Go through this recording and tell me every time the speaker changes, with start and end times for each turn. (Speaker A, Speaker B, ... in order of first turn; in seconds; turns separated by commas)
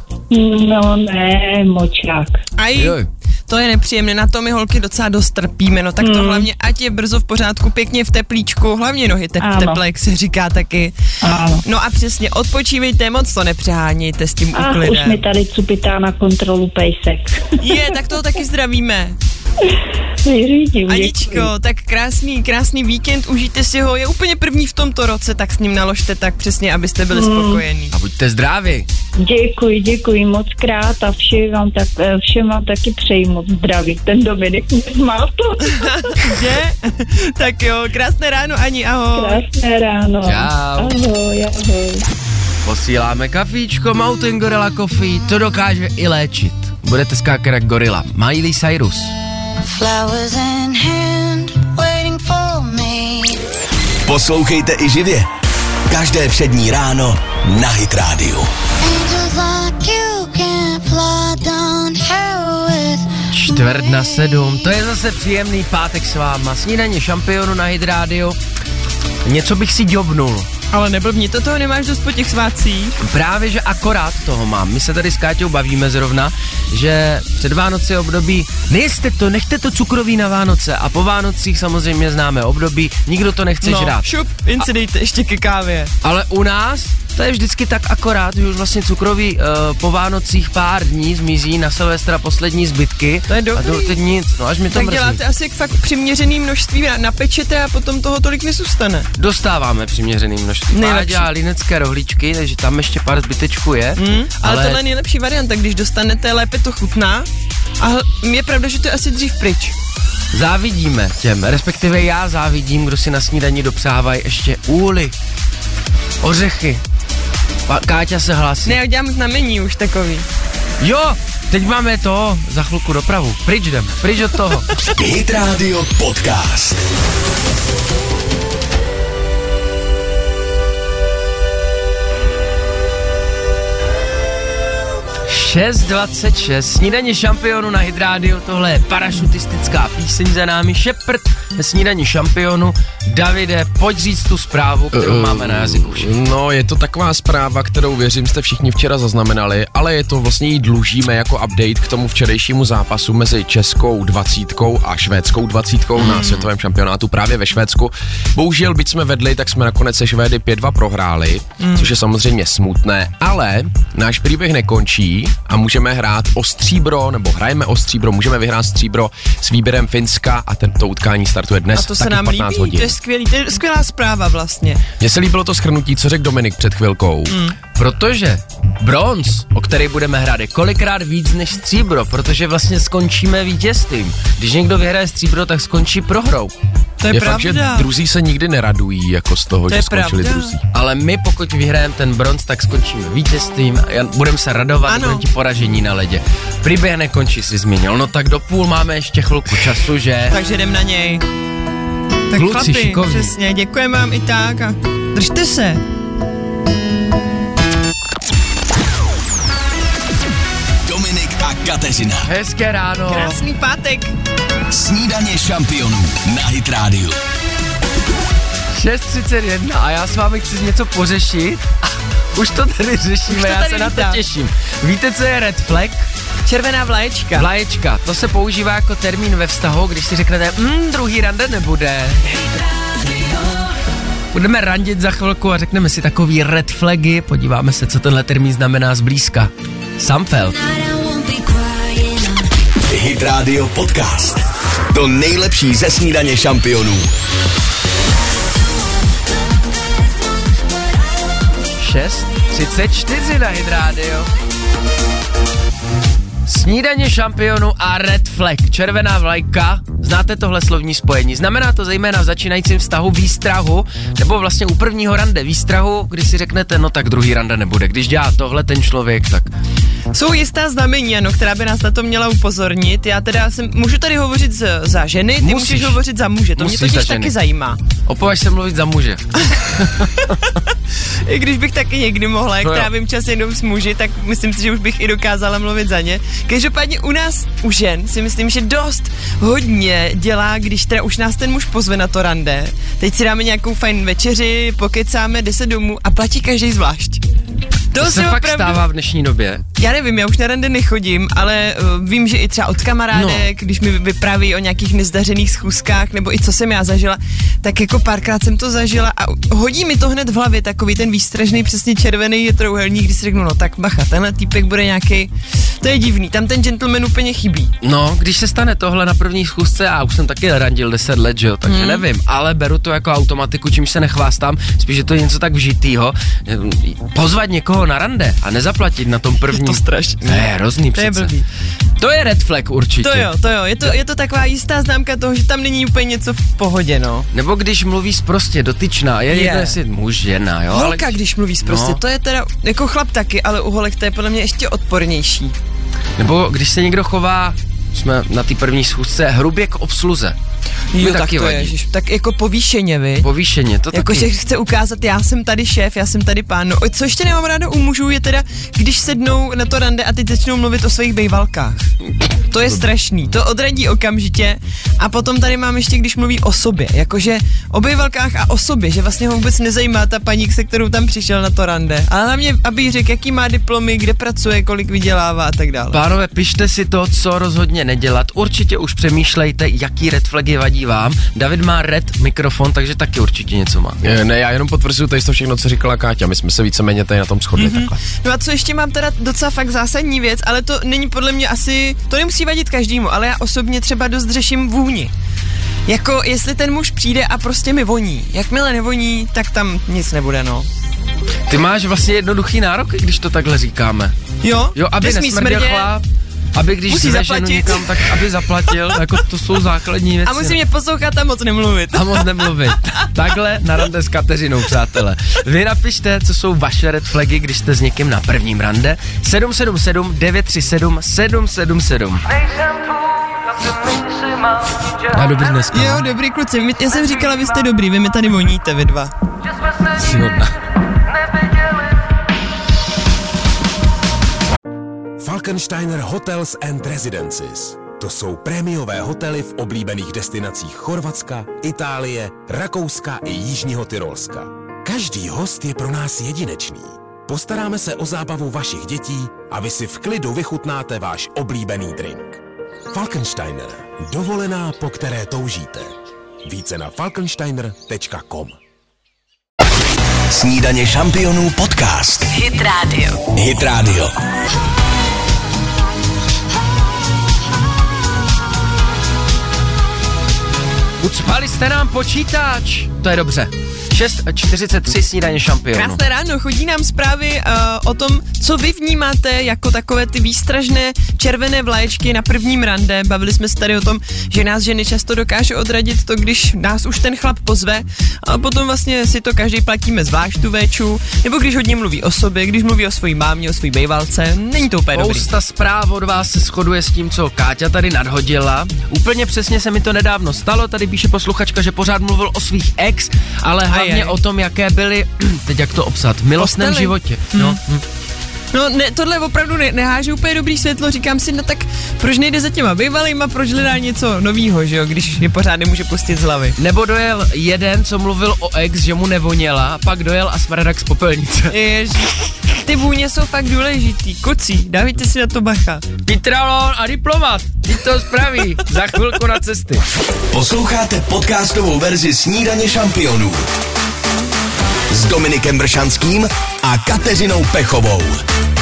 Speaker A: 0.3-2.4, Speaker B: 2.6-10.9, Speaker C: 2.7-3.1, Speaker A: 6.0-6.5, Speaker A: 9.4-9.8, Speaker A: 11.2-11.6, Speaker B: 11.6-15.2, Speaker A: 14.5-17.8, Speaker B: 17.6-19.2, Speaker A: 20.2-21.5, Speaker B: 20.9-27.9, Speaker A: 27.1-27.6, Speaker C: 27.9-28.9, Speaker A: 29.2-36.4, Speaker B: 35.7-39.4, Speaker A: 39.1-42.0, Speaker C: 40.2-40.9, Speaker C: 42.6-49.1, Speaker D: 49.6-53.4, Speaker E: 54.0-55.3, Speaker E: 55.9-58.5, Speaker D: 58.8-64.3, Speaker C: 63.3-68.4, Speaker C: 69.2-70.5, Speaker B: 70.7-73.0, Speaker C: 73.0-84.1, Speaker B: 83.6-85.9, Speaker C: 86.0-95.2, Speaker B: 93.3-94.0, Speaker B: 94.7-99.1, Speaker C: 99.2-104.8, Speaker B: 100.7-101.3, Speaker B: 104.0-107.3, Speaker B: 107.8-109.7, Speaker C: 110.3-115.1, Speaker C: 116.2-116.8, Speaker C: 117.7-118.8, Speaker B: 118.6-120.2, Speaker C: 120.8-124.7, Speaker E: 124.9-126.8, Speaker C: 135.2-146.1, Speaker F: 144.9-172.9, Speaker B: 156.0-156.4, Speaker B: 161.6-161.9, Speaker B: 171.7-174.8, Speaker F: 175.0-177.4, Speaker B: 177.3-177.6, Speaker C: 177.7-186.5, Speaker B: 187.0-187.9, Speaker F: 187.1-190.6, Speaker B: 189.7-190.5, Speaker C: 190.7-200.4, Speaker B: 194.9-195.2, Speaker B: 200.3-201.2, Speaker B: 202.3-205.8, Speaker C: 202.3-203.3, Speaker E: 210.8-212.3, Speaker C: 212.2-213.4, Speaker B: 213.1-214.1, Speaker E: 214.7-217.2, Speaker C: 218.7-226.1, Speaker B: 223.3-224.2, Speaker B: 226.4-227.5, Speaker C: 227.3-232.3, Speaker D: 232.3-233.7, Speaker C: 234.3-240.5, Speaker D: 240.5-242.5, Speaker E: 242.9-247.1, Speaker C: 251.8-254.3, Speaker C: 256.4-269.5, Speaker B: 270.1-277.8, Speaker C: 275.4-276.0, Speaker C: 276.6-277.3, Speaker C: 278.0-279.3, Speaker C: 279.8-280.1, Speaker B: 281.2-297.2, Speaker C: 282.6-282.9, Speaker B: 297.9-298.8, Speaker C: 298.0-299.6, Speaker B: 299.8-317.7, Speaker C: 303.1-303.5, Speaker C: 317.8-331.3, Speaker B: 321.6-322.1, Speaker B: 329.5-331.4, Speaker C: 332.0-333.3, Speaker B: 333.0-337.3, Speaker C: 337.3-342.0, Speaker B: 339.3-339.8, Speaker B: 340.7-345.5, Speaker C: 346.2-350.4, Speaker B: 350.9-353.3, Speaker C: 351.0-351.7, Speaker C: 353.2-354.3, Speaker B: 353.9-361.9, Speaker B: 362.5-376.0, Speaker C: 375.9-384.0, Speaker F: 384.0-388.0, Speaker B: 387.6-395.1, Speaker B: 395.9-400.7, Speaker C: 401.5-404.1, Speaker B: 404.4-405.9, Speaker C: 404.7-410.6, Speaker B: 406.9-408.2, Speaker B: 410.2-412.6, Speaker C: 411.9-426.0, Speaker B: 425.7-429.1, Speaker C: 429.6-430.5, Speaker G: 435.2-452.4, Speaker G: 452.9-458.6, Speaker E: 460.3-462.4, Speaker D: 462.3-463.2, Speaker E: 463.3-464.1, Speaker C: 471.0-476.0, Speaker B: 475.7-495.3, Speaker C: 494.9-507.8, Speaker B: 503.7-504.1, Speaker B: 506.4-507.6, Speaker B: 508.5-516.6, Speaker C: 516.6-521.5, Speaker B: 521.5-522.1, Speaker B: 522.6-525.9, Speaker C: 526.0-529.8, Speaker E: 530.3-533.5, Speaker E: 534.9-538.2